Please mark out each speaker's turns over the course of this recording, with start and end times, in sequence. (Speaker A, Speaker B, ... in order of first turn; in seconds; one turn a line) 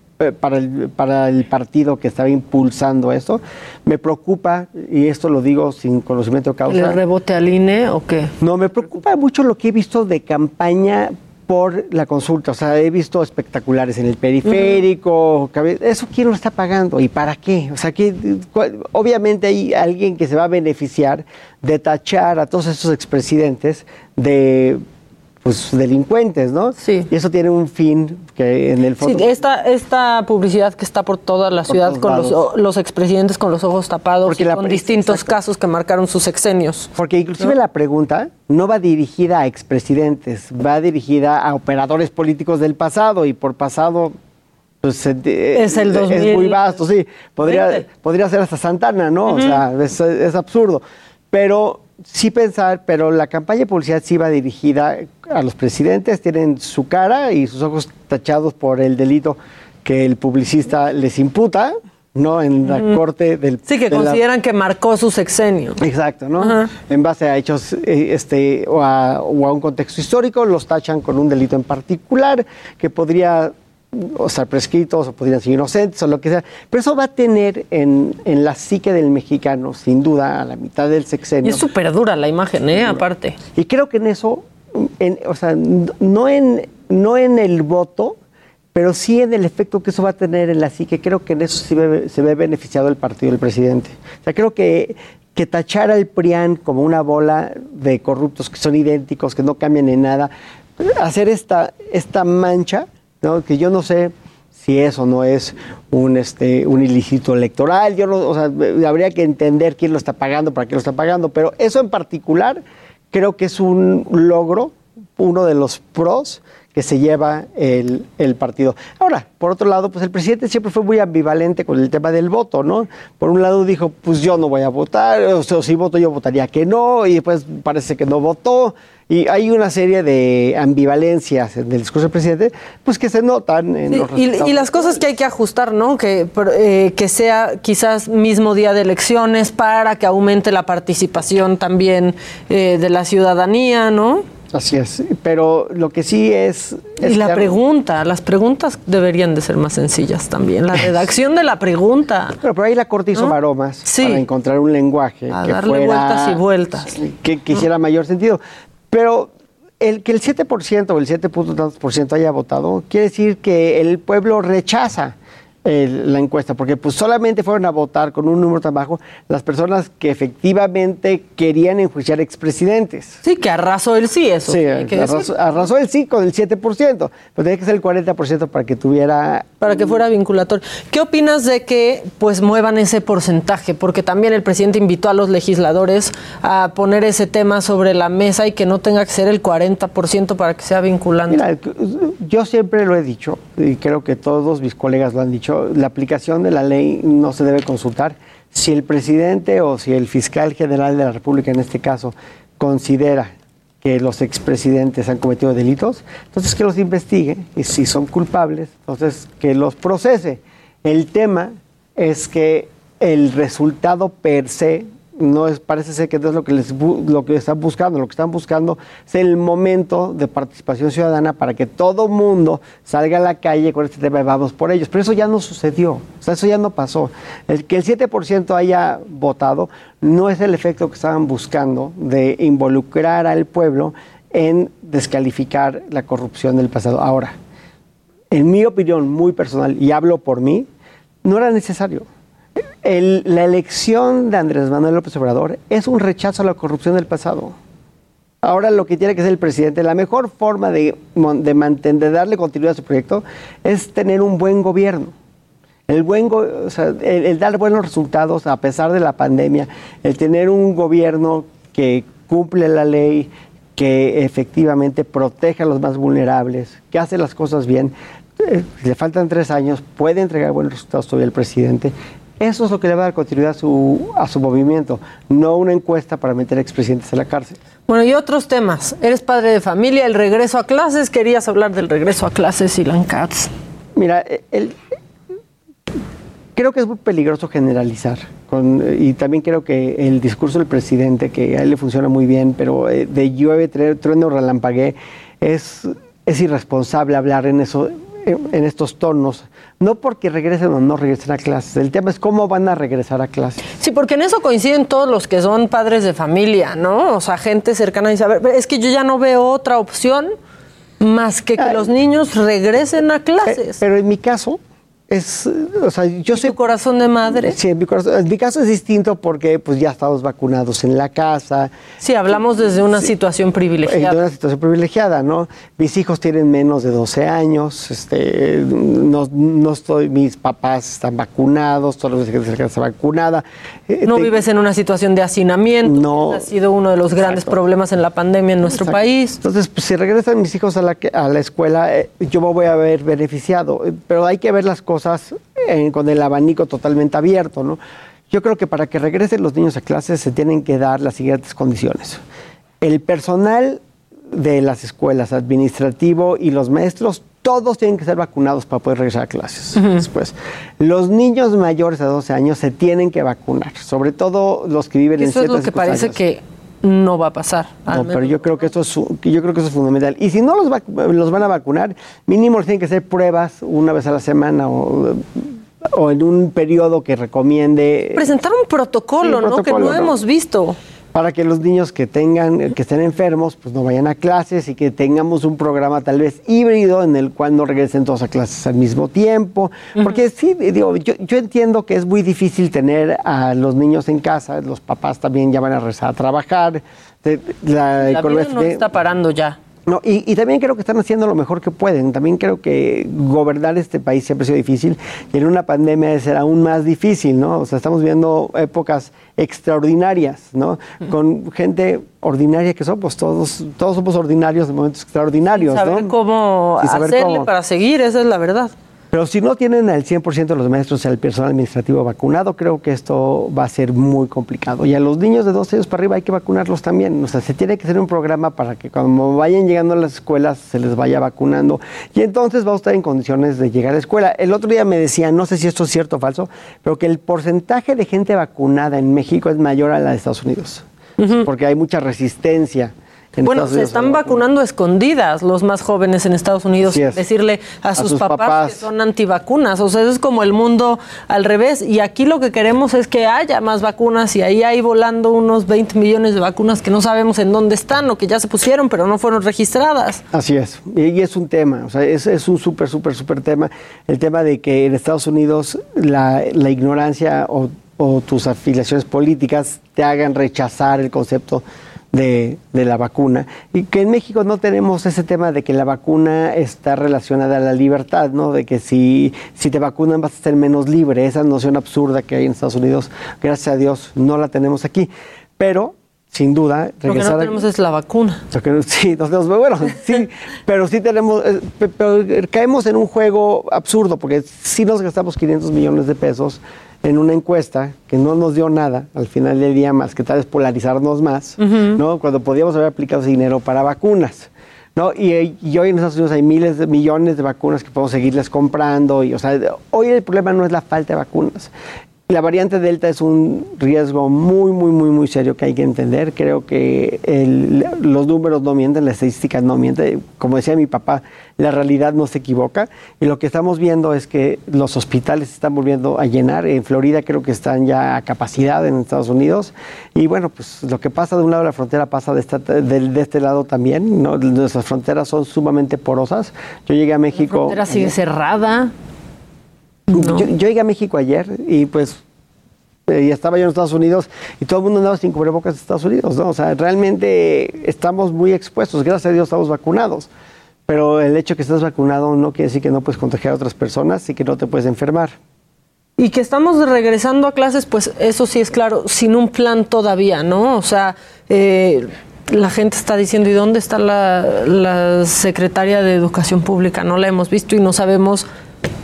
Speaker A: 0.2-7.0
Speaker B: 6.7-8.3
Speaker A: 8.4-24.8
Speaker B: 14.5-14.8
Speaker A: 25.4-29.3
Speaker B: 26.8-27.1
Speaker B: 29.0-37.6
Speaker A: 31.7-32.4
Speaker A: 34.3-35.3
Speaker A: 37.0-44.1
Speaker A: 44.8-64.2
Speaker B: 45.5-46.8
Speaker B: 47.4-47.9
Speaker B: 49.3-49.6
Speaker B: 62.7-63.0
Speaker B: 63.6-65.8
Speaker A: 65.8-81.7
Speaker B: 66.4-66.7
Speaker B: 81.4-83.4
Speaker A: 82.7-83.0
Speaker A: 83.6-88.2
Speaker A: 88.8-135.0
Speaker B: 133.9-144.3
Speaker A: 144.5-147.6
Speaker B: 147.0-152.4
Speaker A: 152.4-173.2
Speaker B: 153.1-154.2
Speaker B: 155.3-157.0
Speaker B: 173.2-175.4
Speaker A: 174.5-179.9
Speaker B: 179.6-191.4
Speaker A: 191.3-237.3
Speaker A: 238.3-240.7
Speaker A: 241.2-242.1
Speaker A: 242.8-247.6
Speaker A: 248.4-255.1
Speaker A: 255.9-277.6
Speaker B: 277.9-283.5
Speaker A: 284.0-284.8
Speaker A: 286.6-303.6
Speaker B: 303.8-310.3
Speaker B: 311.0-313.8
Speaker A: 311.6-311.9
Speaker A: 313.4-316.6
Speaker B: 316.3-317.6
Speaker A: 317.3-321.7
Speaker B: 322.0-324.2
Speaker A: 323.9-334.3
Speaker B: 334.0-339.4
Speaker A: 335.8-336.5
Speaker A: 337.1-337.6
Speaker A: 338.6-347.8
Speaker A: 348.3-352.2
Speaker A: 352.8-353.8
Speaker A: 354.3-366.2
Speaker B: 359.8-360.1
Speaker B: 365.2-368.7
Speaker A: 367.9-378.3
Speaker B: 378.1-380.8
Speaker A: 379.2-380.1
Speaker A: 381.1-398.9
Speaker B: 398.0-399.6
Speaker A: 399.9-416.1
Speaker B: 415.5-418.7
Speaker A: 416.8-417.5
Speaker A: 419.1-440.9
Speaker B: 441.2-441.5
Speaker A: 441.4-444.4
Speaker B: 443.4-460.2
Speaker A: 446.8-447.2
Speaker A: 447.9-448.8
Speaker A: 460.3-487.6
Speaker B: 487.1-488.4
Speaker A: 488.5-511.7
Speaker B: 501.6-502.0
Speaker A: 512.3-538.1
Speaker B: 537.4-538.9
Speaker B: 540.1-540.5
Speaker A: 540.2-542.2
Speaker A: 543.1-550.3
Speaker A: 550.9-555.4
Speaker B: 556.2-568.5